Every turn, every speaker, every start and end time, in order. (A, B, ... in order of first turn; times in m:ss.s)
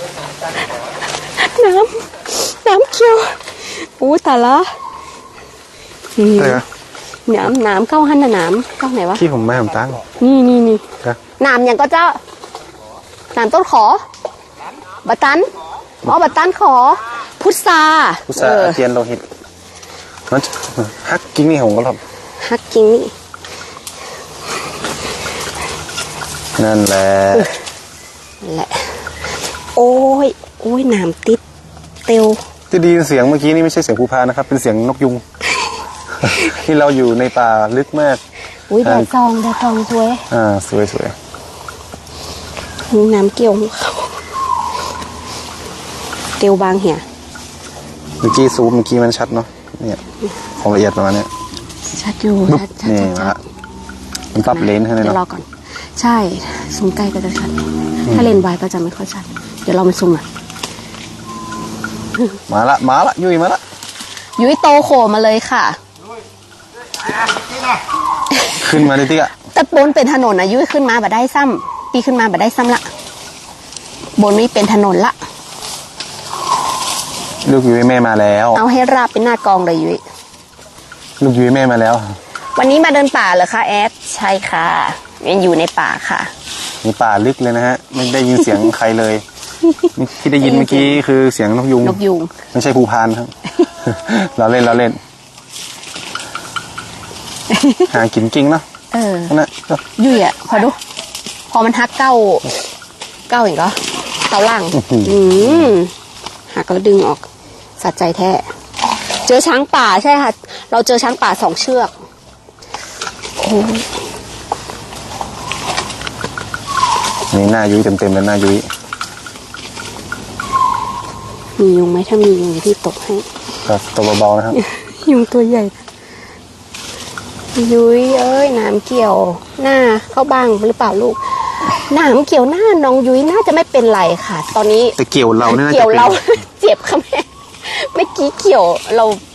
0:01.4-0:04.7 A
0:06.2-0:06.6 A
0:06.4-0:06.6 B
0:07.3-0:09.2 A
0:09.2-0:10.0 B
0:10.2-0:10.9 A
0:11.4-0:12.2 A
0:13.4-0:14.0 A
0:15.0-0:15.5 A
0:16.0-0:18.8 A
0:18.3-0:19.2 B
0:20.3-0:22.0 B
0:22.4-0:23.1 A
0:26.6-0:27.5 B
0:28.4-0:28.9 A
0:29.7-0:31.4 A
0:32.0-0:32.4 A
0:32.7-0:35.2 B
0:36.2-0:38.2 B
0:38.7-0:40.3 A
0:38.8-0:39.1 B
0:40.3-0:41.2 B
0:42.9-0:44.2 A
0:46.4-0:47.0 A
0:48.2-0:50.0 B
0:50.6-0:51.3 B
0:51.9-0:53.4 A
0:52.5-0:53.4 B
0:54.4-0:55.2 B
0:54.4-1:00.2 A
0:58.1-0:58.4 B
1:02.5-1:03.6 B
1:04.4-1:05.8 A
1:08.3-1:08.6 A
1:08.6-1:09.3 B
1:09.5-1:12.9 A
1:14.2-1:15.2 A
1:17.4-1:18.6 B
1:18.5-1:20.0 A
1:21.2-1:22.2 B
1:22.6-1:26.3 A
1:26.8-1:29.2 B
1:30.0-1:32.0 B
1:30.4-1:31.0 A
1:31.8-1:32.3 A
1:32.5-1:35.0 B
1:37.5-1:37.9 A
1:37.9-1:38.7 B
1:38.9-1:39.4 A
1:39.3-1:39.8 B
1:40.0-1:40.8 A
1:41.5-1:42.5 A
1:43.3-1:45.9 A
1:44.8-1:45.8 B
1:46.5-1:47.2 A
1:47.8-1:48.4 A
1:49.2-1:51.9 A
1:53.4-1:53.9 A
1:57.3-1:58.7 B
2:01.6-2:03.3 A
2:03.7-2:04.6 B
2:04.5-2:05.8 A
2:07.6-2:19.2 A
2:15.0-2:16.2 B